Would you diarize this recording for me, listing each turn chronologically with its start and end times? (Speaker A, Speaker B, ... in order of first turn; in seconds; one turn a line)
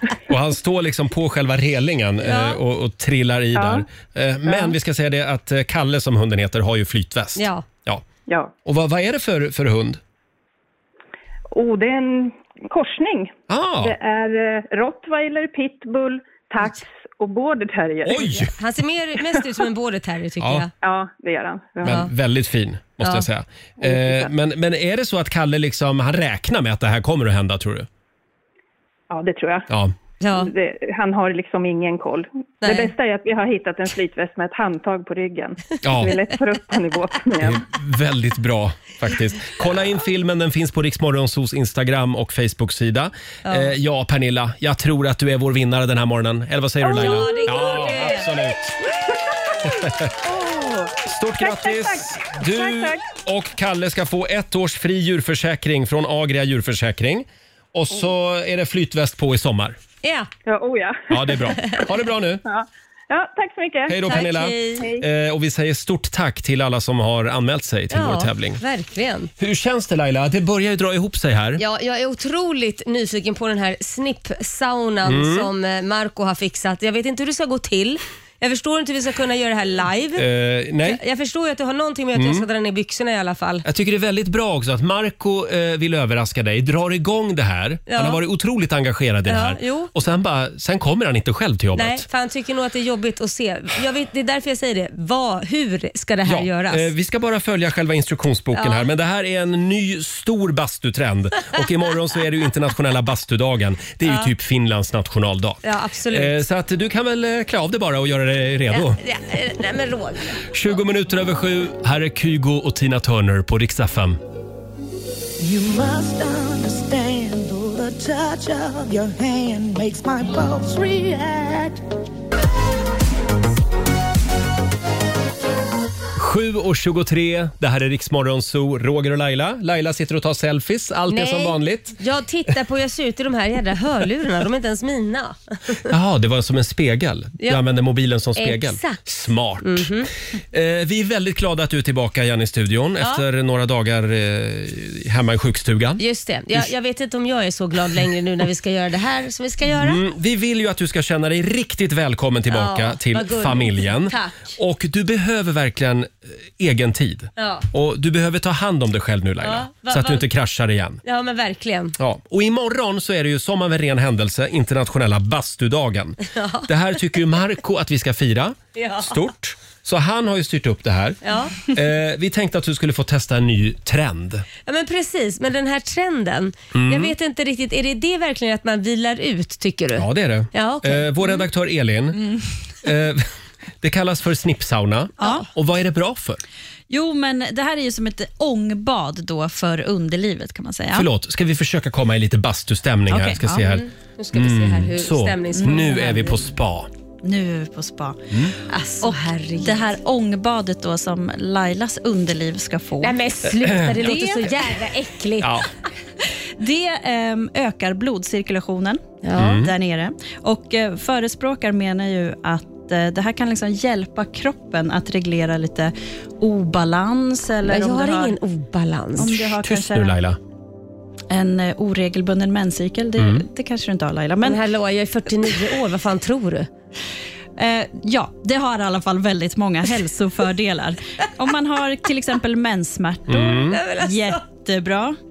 Speaker A: 0.3-8.0
Speaker B: 2.2-2.6
Speaker C: 3.5-3.9
Speaker C: 4.5-4.7
Speaker B: 7.4-7.7
Speaker C: 8.3-8.5
Speaker A: 8.6-10.0
Speaker C: 11.5-18.3
Speaker A: 13.5-13.9
Speaker A: 18.0-18.5
Speaker B: 18.1-20.7
Speaker A: 20.4-20.7
Speaker C: 20.8-22.0
Speaker A: 21.8-27.9
Speaker B: 21.8-22.1
Speaker C: 23.8-24.3
Speaker C: 29.1-29.7
Speaker A: 29.7-29.9
Speaker B: 30.2-30.5
Speaker C: 30.3-37.6
Speaker B: 32.6-32.9
Speaker A: 35.8-36.2
Speaker A: 37.4-48.8
Speaker B: 43.4-43.7
Speaker C: 46.8-48.2
Speaker B: 46.9-48.3
Speaker C: 49.1-49.7
Speaker A: 49.6-50.1
Speaker C: 50.2-53.0
Speaker A: 51.0-59.8
Speaker B: 60.0-60.3
Speaker C: 60.5-61.5
Speaker A: 61.1-62.4
Speaker C: 62.4-64.2
Speaker A: 63.9-68.6
Speaker B: 64.0-64.9
Speaker C: 64.8-65.0
Speaker B: 67.9-69.3
Speaker A: 69.4-71.6
Speaker B: 71.6-80.2
Speaker A: 75.0-75.5
Speaker A: 80.2-81.0
Speaker B: 80.8-83.6
Speaker A: 82.1-82.4
Speaker A: 83.6-92.0
Speaker B: 87.9-88.2
Speaker B: 89.3-89.9
Speaker B: 91.8-96.9
Speaker A: 96.2-109.0
Speaker B: 98.5-98.8
Speaker B: 104.0-104.3
Speaker B: 105.6-106.4
Speaker B: 108.7-110.5
Speaker A: 110.5-114.2
Speaker D: 115.4-121.8
Speaker A: 126.2-132.0
Speaker B: 131.1-135.9
Speaker A: 135.9-139.9
Speaker B: 138.4-139.0
Speaker B: 139.6-140.1
Speaker A: 140.5-146.0
Speaker B: 146.0-150.0
Speaker A: 149.8-161.0
Speaker B: 152.5-154.5
Speaker B: 157.4-157.7
Speaker B: 159.4-160.2
Speaker B: 161.0-161.9
Speaker A: 162.0-174.4
Speaker B: 166.2-166.7
Speaker B: 168.8-169.2
Speaker B: 171.2-171.6
Speaker B: 174.6-181.4
Speaker A: 176.7-177.1
Speaker A: 179.9-182.2
Speaker A: 182.8-183.3
Speaker A: 183.8-186.4
Speaker E: 185.2-185.4
Speaker E: 186.9-191.1
Speaker A: 190.9-196.9
Speaker E: 193.1-193.4
Speaker B: 193.5-196.2
Speaker E: 195.6-196.4
Speaker E: 197.2-198.2
Speaker B: 198.7-199.9
Speaker E: 199.0-203.1
Speaker B: 203.0-205.6
Speaker A: 203.6-204.2
Speaker E: 204.1-204.4
Speaker A: 205.4-205.7
Speaker E: 206.6-218.4
Speaker B: 209.2-209.6
Speaker A: 209.4-209.7
Speaker B: 217.7-219.4
Speaker E: 219.2-220.2
Speaker A: 219.6-220.4
Speaker E: 221.3-224.6
Speaker A: 223.2-223.4
Speaker B: 224.4-226.7
Speaker E: 227.6-235.2
Speaker A: 233.3-233.8
Speaker B: 233.7-234.4